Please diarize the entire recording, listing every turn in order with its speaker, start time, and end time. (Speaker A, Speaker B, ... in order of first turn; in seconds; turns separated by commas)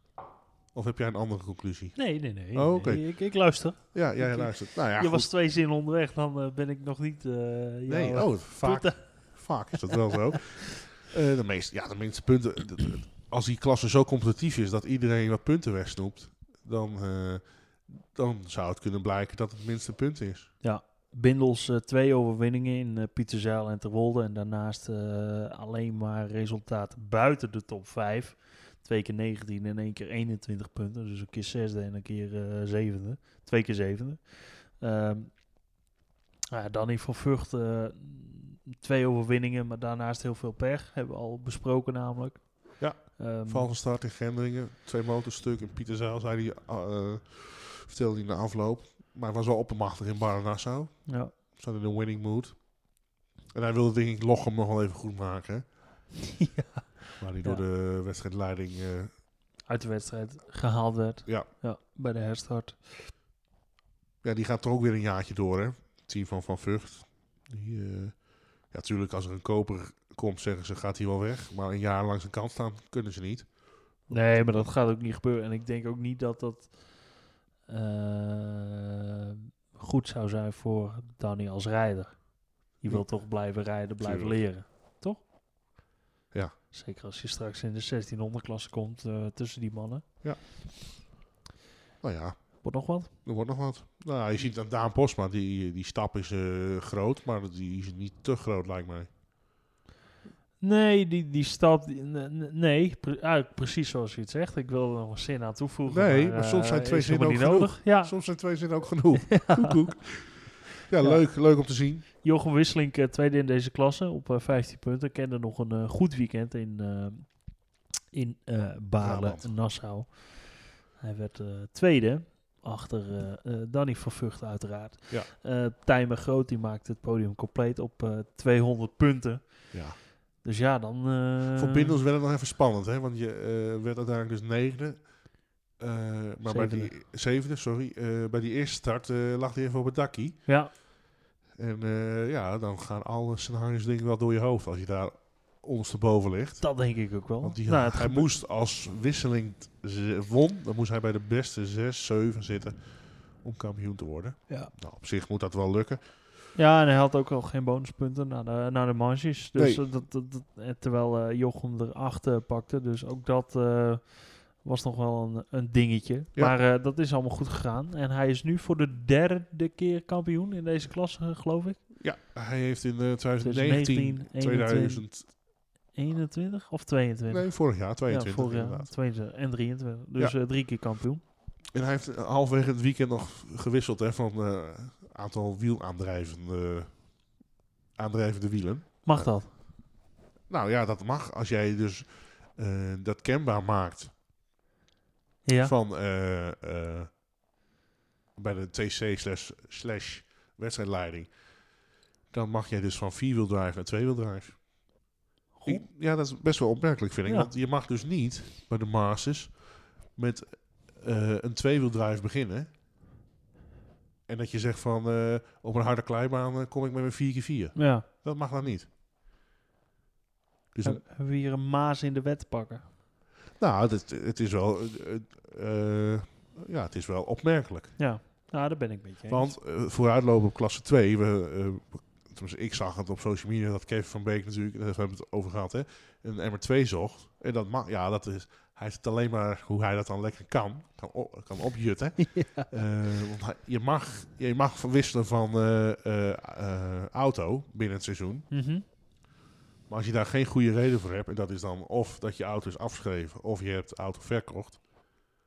Speaker A: 0.7-5.3, Speaker B: 2.0-9.7, Speaker A: 7.9-20.5, Speaker B: 20.6-35.5, Speaker B: 36.5-43.7, Speaker A: 42.8-52.9, Speaker B: 51.1-51.3, Speaker A: 53.5-55.7, Speaker B: 56.4-57.6, Speaker A: 57.2-59.1, Speaker B: 59.6-63.1, Speaker A: 64.2-73.5, Speaker A: 74.0-74.7, Speaker B: 74.1-85.3, Speaker A: 82.8-84.4, Speaker B: 86.7-90.2, Speaker A: 90.2-91.0, Speaker A: 92.0-99.1, Speaker B: 92.6-93.1, Speaker B: 100.6-108.2, Speaker A: 105.9-112.1, Speaker B: 109.3-110.0, Speaker B: 111.0-132.0, Speaker A: 119.0-119.5, Speaker A: 129.7-130.0, Speaker A: 131.5-140.4, Speaker B: 136.4-136.9, Speaker B: 140.5-140.7, Speaker A: 141.5-146.8, Speaker B: 146.6-148.3, Speaker A: 147.4-156.0, Speaker B: 156.6-171.9, Speaker A: 159.6-159.8, Speaker A: 172.0-175.3, Speaker B: 173.4-181.2, Speaker A: 177.3-178.9, Speaker A: 181.7-187.4, Speaker A: 187.9-189.7, Speaker B: 189.0-189.6, Speaker A: 190.5-194.1, Speaker B: 195.4-195.7, Speaker A: 195.6-197.2, Speaker A: 198.4-201.6, Speaker A: 202.3-205.0, Speaker B: 205.6-205.9, Speaker A: 205.6-212.7, Speaker B: 207.3-207.5, Speaker A: 214.3-218.9, Speaker B: 217.8-218.1, Speaker A: 220.7-221.0, Speaker B: 220.8-222.9, Speaker A: 223.6-228.0, Speaker B: 228.0-229.5, Speaker A: 229.3-248.5, Speaker B: 242.2-242.7, Speaker B: 248.5-248.8, Speaker A: 249.9-254.9